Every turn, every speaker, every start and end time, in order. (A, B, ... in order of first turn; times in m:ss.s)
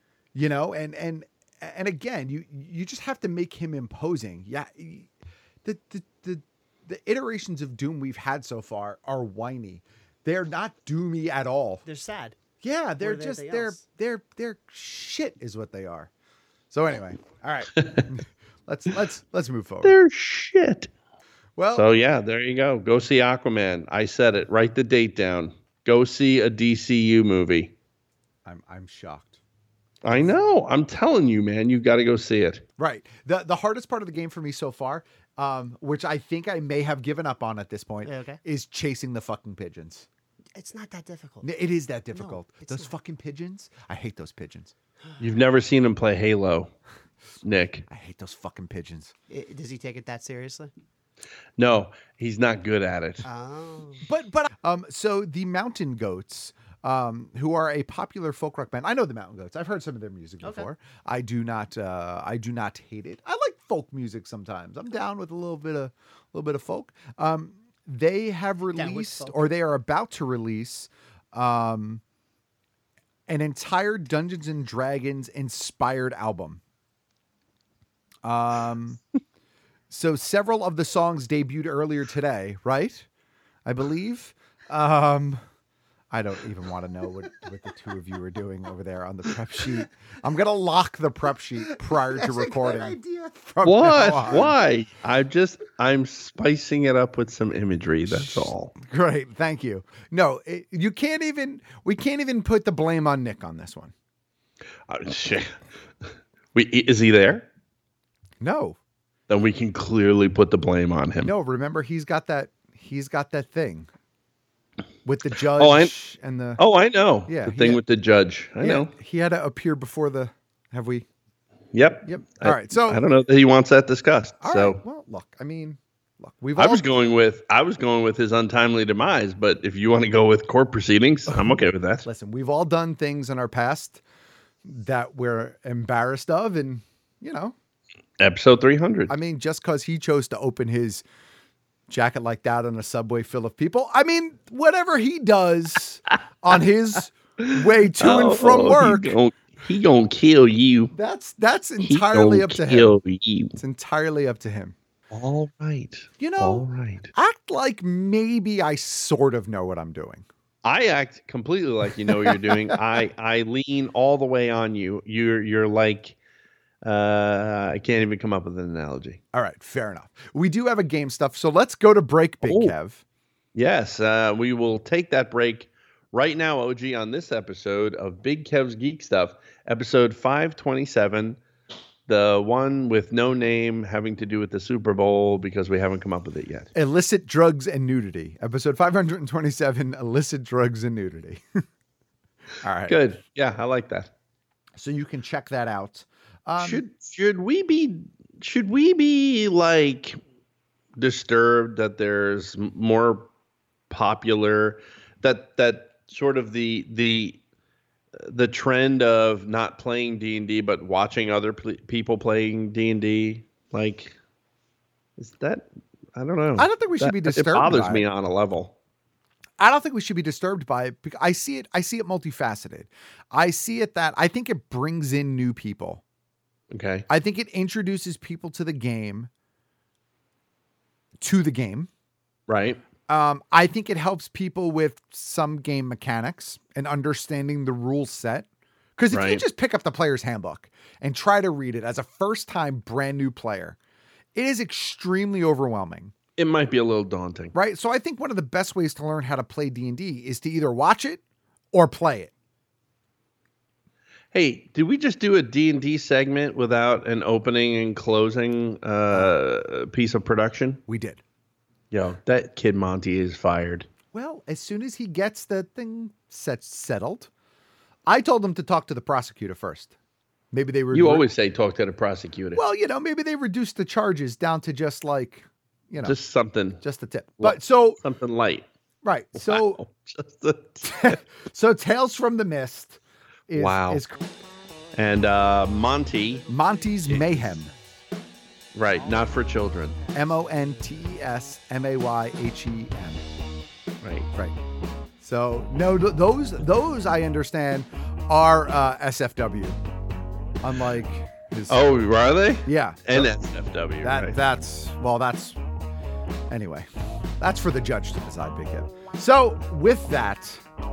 0:00.3-0:05.1 A
0:05.6-0:11.8 A
0:11.8-0:12.4 B
0:12.6-0:16.1 A
0:13.0-0:13.8 B
0:16.7-0:20.0 A
0:17.7-0:18.1 C
0:19.8-0:20.9 C
0:21.6-0:21.9 A
0:21.7-0:27.7 C
0:28.4-0:29.4 A
0:30.0-0:32.6 C
0:32.8-0:40.1 A
0:38.0-0:38.4 B
0:40.5-0:41.5 B
0:41.4-0:44.7 A
0:42.1-0:42.9 B
0:45.2-0:46.7 C
0:47.4-0:47.8 C
0:47.9-0:49.1 A
0:49.3-0:50.7 B
0:51.6-0:53.2 C
0:53.2-0:54.0 B
0:54.0-1:12.0 A
1:00.4-1:00.7 B
1:08.7-1:09.5 B
1:13.3-1:16.6 A
1:18.2-1:19.0 A
1:19.9-1:23.1 A
1:23.6-1:25.4 A
1:26.1-1:34.6 A
1:31.9-1:33.3 B
1:33.6-1:38.7 C
1:38.1-1:43.9 A
1:44.9-1:45.5 C
1:46.5-1:47.5 C
1:48.4-1:48.8 A
1:49.3-1:51.3 C
1:51.2-1:53.9 A
1:55.0-1:56.6 A
1:55.5-1:55.9 C
1:56.6-1:58.9 C
1:57.2-1:57.8 A
1:58.6-2:01.0 A
2:01.7-2:04.8 C
2:02.0-2:03.0 A
2:04.4-2:06.9 A
2:06.6-2:12.0 C
2:12.0-2:14.0 A
2:14.6-2:17.5 A
2:18.2-2:19.1 C
2:19.1-2:21.0 A
2:21.9-2:29.2 A
2:27.4-2:30.9 C
2:30.9-2:32.9 A
2:31.8-2:33.6 C
2:33.6-2:34.8 A
2:35.1-2:37.1 C
2:36.2-2:40.2 A
2:40.6-2:46.2 C
2:42.0-2:43.0 A
2:46.8-2:49.2 C
2:49.3-2:53.0 A
2:52.4-2:52.7 C
2:53.5-3:01.4 C
3:02.1-3:06.7 C
3:06.7-3:11.4 A
3:12.6-3:13.0 A
3:12.9-3:14.1 C
3:14.8-3:16.8 A
3:16.6-3:20.2 C
3:21.0-3:23.3 C
3:23.9-3:27.4 C
3:28.2-3:34.1 C
3:35.2-3:38.7 C
3:36.6-3:38.0 A
3:39.6-3:46.0 A
3:46.7-3:47.0 C
3:47.1-3:49.3 A
3:51.2-3:51.9 A
3:52.5-3:52.8 C
3:53.1-4:03.8 A
3:59.1-3:59.4 C
4:04.3-4:06.1 A
4:06.4-4:07.5 C
4:07.5-4:11.2 A
4:11.7-4:12.3 A
4:14.3-4:20.8 C
4:20.9-4:21.2 A
4:21.9-4:23.9 C
4:24.1-4:27.3 A
4:28.0-4:29.9 A
4:30.5-4:31.2 A
4:30.9-4:32.6 C
4:32.5-4:36.2 A
4:36.0-4:36.8 C
4:36.8-4:38.0 A
4:37.4-4:38.7 C
4:39.0-4:39.8 A
4:39.4-4:41.2 C
4:40.8-4:44.2 A
4:43.5-4:44.0 C
4:44.9-4:46.5 C
4:46.5-4:47.7 A
4:47.0-4:47.4 C
4:48.7-4:50.0 C
4:50.1-4:53.2 A
4:54.0-4:54.3 C
4:55.2-4:59.8 A
5:00.6-5:01.9 A
5:01.7-5:04.4 C
5:02.6-5:03.3 A
5:04.0-5:05.6 A
5:06.5-5:06.9 A
5:07.4-5:10.6 A